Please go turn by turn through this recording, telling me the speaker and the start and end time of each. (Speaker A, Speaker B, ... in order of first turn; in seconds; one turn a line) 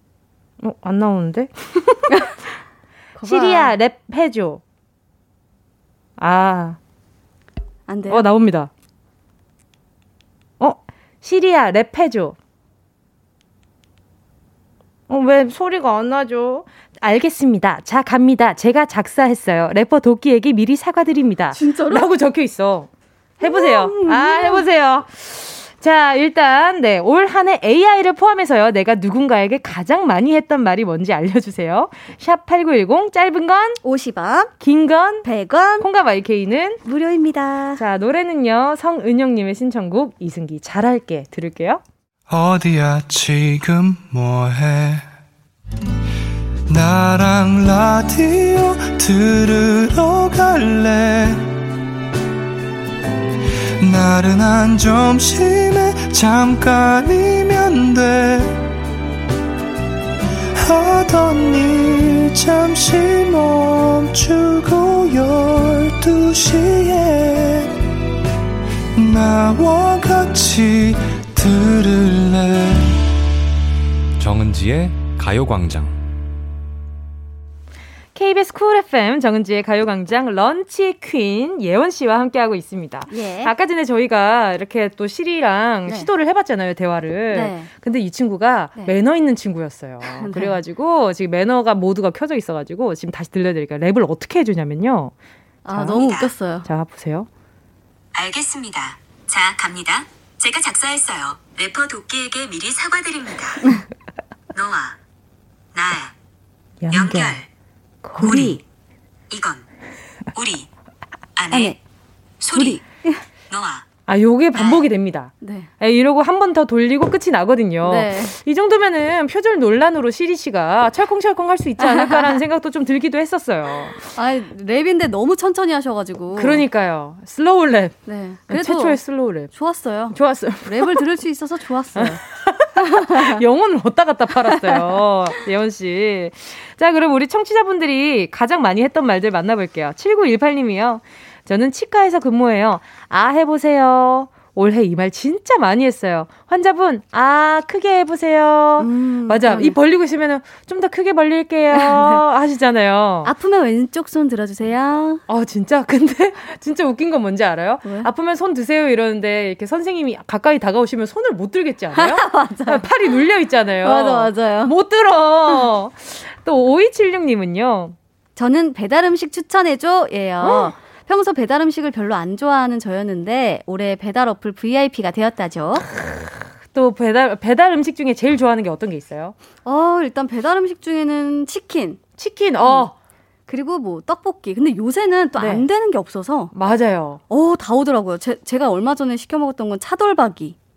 Speaker A: 0.6-2.3
Speaker B: 3.1-3.7
Speaker A: 3.2-4.6
Speaker A: 6.2-6.8
Speaker B: 7.9-8.3
Speaker A: 8.1-8.7
Speaker A: 10.6-12.3
Speaker A: 15.1-22.9
Speaker B: 21.5-22.1
Speaker B: 23.4-24.6
Speaker A: 23.4-33.8
Speaker B: 33.8-34.5
Speaker A: 34.6-35.2
Speaker B: 35.2-35.9
Speaker A: 35.8-36.8
Speaker B: 36.8-37.8
Speaker A: 37.8-41.8
Speaker C: 42.3-45.0
Speaker C: 46.7-51.5
Speaker C: 53.8-58.6
Speaker C: 60.5-67.8
Speaker C: 68.9-73.0
Speaker C: 74.2-75.9
Speaker A: 78.1-95.1
Speaker B: 83.1-83.5
Speaker B: 87.3-87.7
Speaker B: 90.0-90.6
Speaker B: 95.6-96.7
Speaker A: 95.7-96.0
Speaker D: 96.0-96.3
Speaker A: 96.6-97.3
Speaker D: 98.1-103.8
Speaker D: 104.5-105.0
Speaker D: 105.7-106.1
Speaker A: 106.8-107.4
Speaker D: 106.9-107.5
Speaker A: 108.0-108.6
Speaker B: 108.2-108.6
Speaker D: 108.2-108.6
Speaker D: 109.3-109.6
Speaker D: 110.3-110.7
Speaker D: 111.3-111.8
Speaker B: 111.5-111.8
Speaker D: 112.4-112.8
Speaker B: 112.5-113.2
Speaker D: 113.5-113.8
Speaker A: 114.1-124.0
Speaker D: 114.5-114.8
Speaker B: 115.4-115.7
Speaker B: 117.8-118.3
Speaker B: 121.8-122.4
Speaker B: 124.0-126.6
Speaker A: 126.3-128.0
Speaker B: 128.1-129.0
Speaker A: 128.5-129.5
Speaker B: 129.5-132.2
Speaker A: 130.1-131.0
Speaker A: 131.9-153.3
Speaker B: 132.8-133.4
Speaker B: 134.5-135.0
Speaker B: 148.8-149.8
Speaker B: 151.7-152.2
Speaker B: 153.2-155.2
Speaker A: 155.3-167.9
Speaker B: 157.8-158.1
Speaker B: 161.9-163.1
Speaker B: 163.8-164.7
Speaker B: 168.3-175.8
Speaker A: 170.4-170.7
Speaker A: 175.9-179.3
Speaker B: 179.6-182.0
Speaker A: 182.2-182.9
Speaker B: 182.6-182.9
Speaker B: 183.5-186.5
Speaker A: 185.4-185.7
Speaker A: 186.5-187.2
Speaker B: 187.3-190.6